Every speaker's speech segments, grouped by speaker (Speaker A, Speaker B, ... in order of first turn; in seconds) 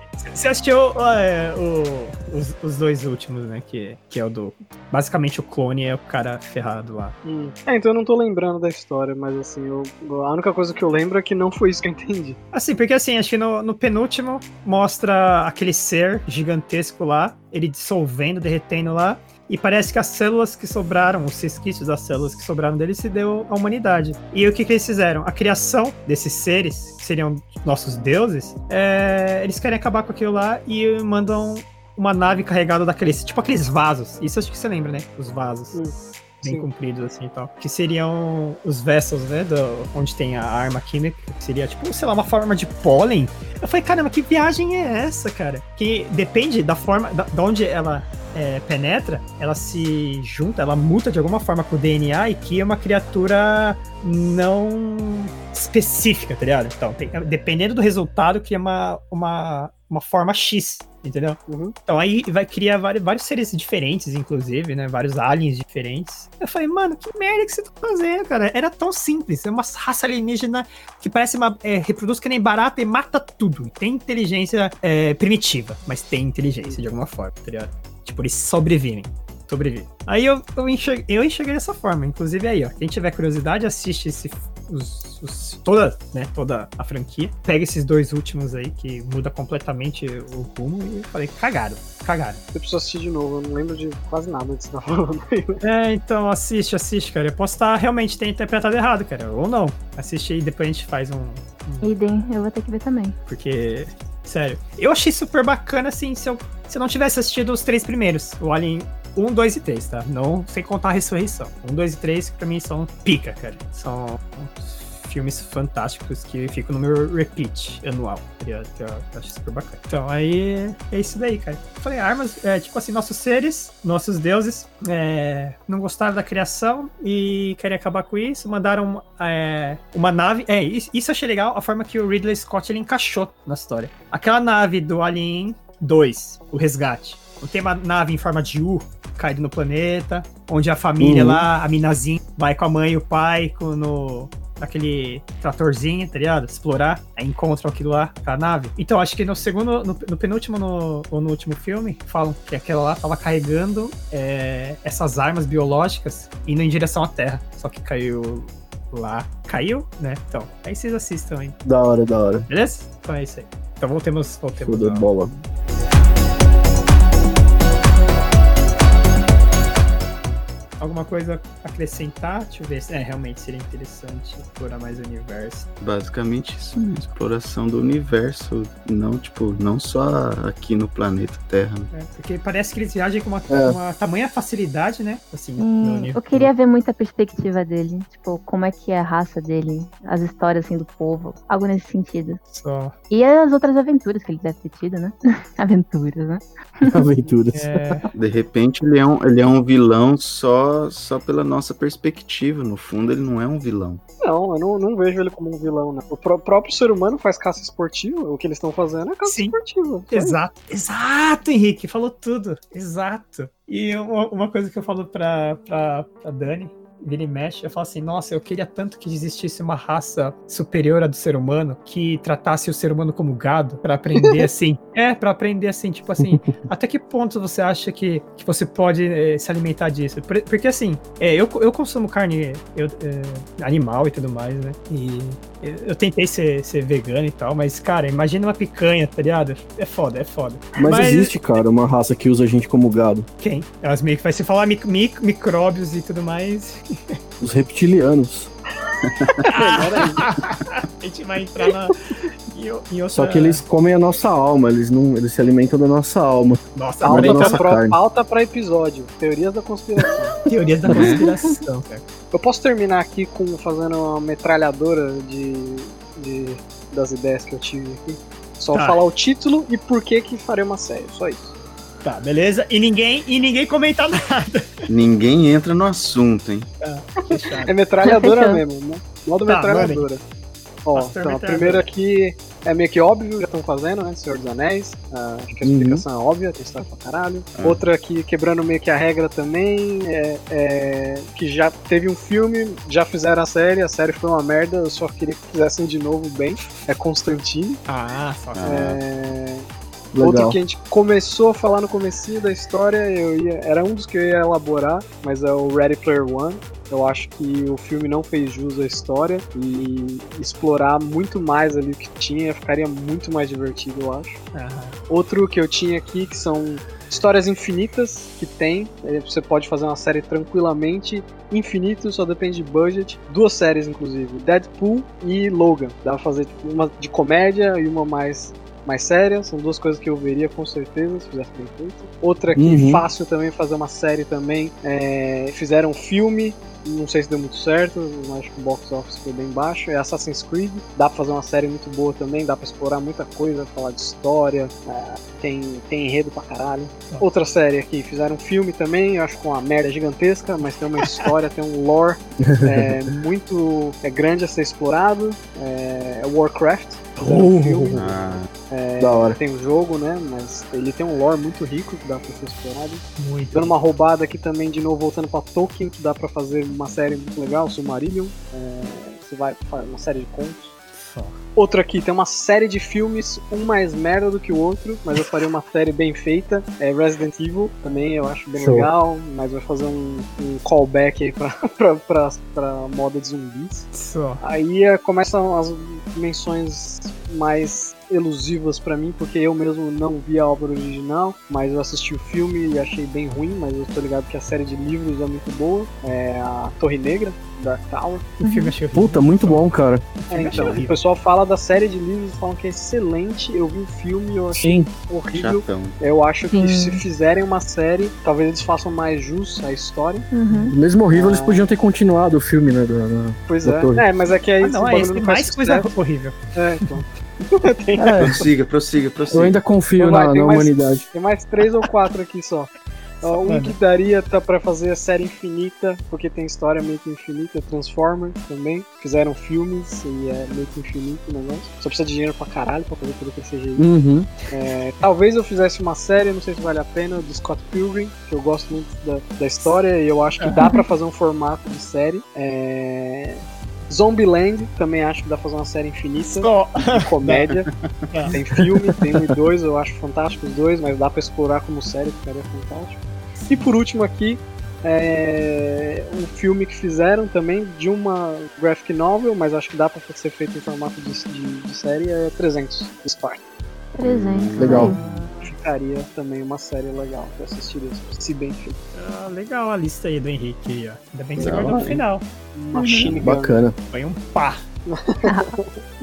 Speaker A: 0.2-7.1, 12.5-35.8, 36.4-92.4, 95.6-101.9, 103.3-161.6, 162.5-165.1, 170.8-175.7, 181.9-186.5, 192.5-192.9, 197.5-198.1, 209.3-209.6, 210.1-241.6, 243.4-247.2, 249.4-253.6, 256.7-257.7, 260.4-262.0, 268.7-269.0, 272.0-274.7, 276.8-277.7, 279.4-280.1, 280.9-281.9, 297.9-298.6, 314.5-314.9, 363.2-363.7, 370.9-371.4, 383.9-384.4, 398.4-401.0, 414.6-416.9, 423.2-423.8, 446.3-447.1, 448.1-448.4, 453.4-453.6, 468.9-472.2, 473.9-474.6
Speaker B: 7.2-12.4, 35.7-36.7, 61.5-61.8, 92.5-95.6, 204.2-210.4, 249.4-250.4, 257.0-260.4, 262.3-271.5, 277.6-280.2, 280.8-297.8, 298.7-299.6, 300.2-314.4, 315.1-358.0, 358.7-370.7, 371.6-398.3, 400.3-410.3, 411.1-411.6, 413.5-415.9, 416.5-418.2, 420.0-422.7, 423.2-433.9, 434.5-447.7, 448.3-463.4, 465.4-468.8, 472.5-473.6, 474.9-475.8
Speaker C: 101.8-103.1, 185.6-192.4, 193.1-197.0, 278.0-278.6, 398.4-398.7, 406.5-407.0, 410.3-410.8, 463.9-465.0, 475.2-475.5
Speaker D: 141.0-141.4, 161.6-162.5, 164.6-165.3, 183.5-183.8, 196.8-198.1, 240.8-243.3, 247.4-248.5, 253.1-258.0, 285.6-286.0, 300.1-300.6, 332.6-333.0, 352.4-352.9, 357.2-358.0, 359.0-359.4, 378.6-378.9, 398.9-400.1, 404.5-404.9, 410.7-414.0, 417.9-418.5, 419.3-421.1, 433.8-434.3, 464.6-465.0, 473.1-473.8
Speaker E: 175.8-181.9, 198.1-204.0, 249.0-249.4, 260.9-261.2, 274.9-276.7, 298.5-299.0, 357.9-358.5, 400.5-400.8, 405.3-406.0, 418.2-419.6, 447.2-447.9, 464.0-465.0, 471.4-472.0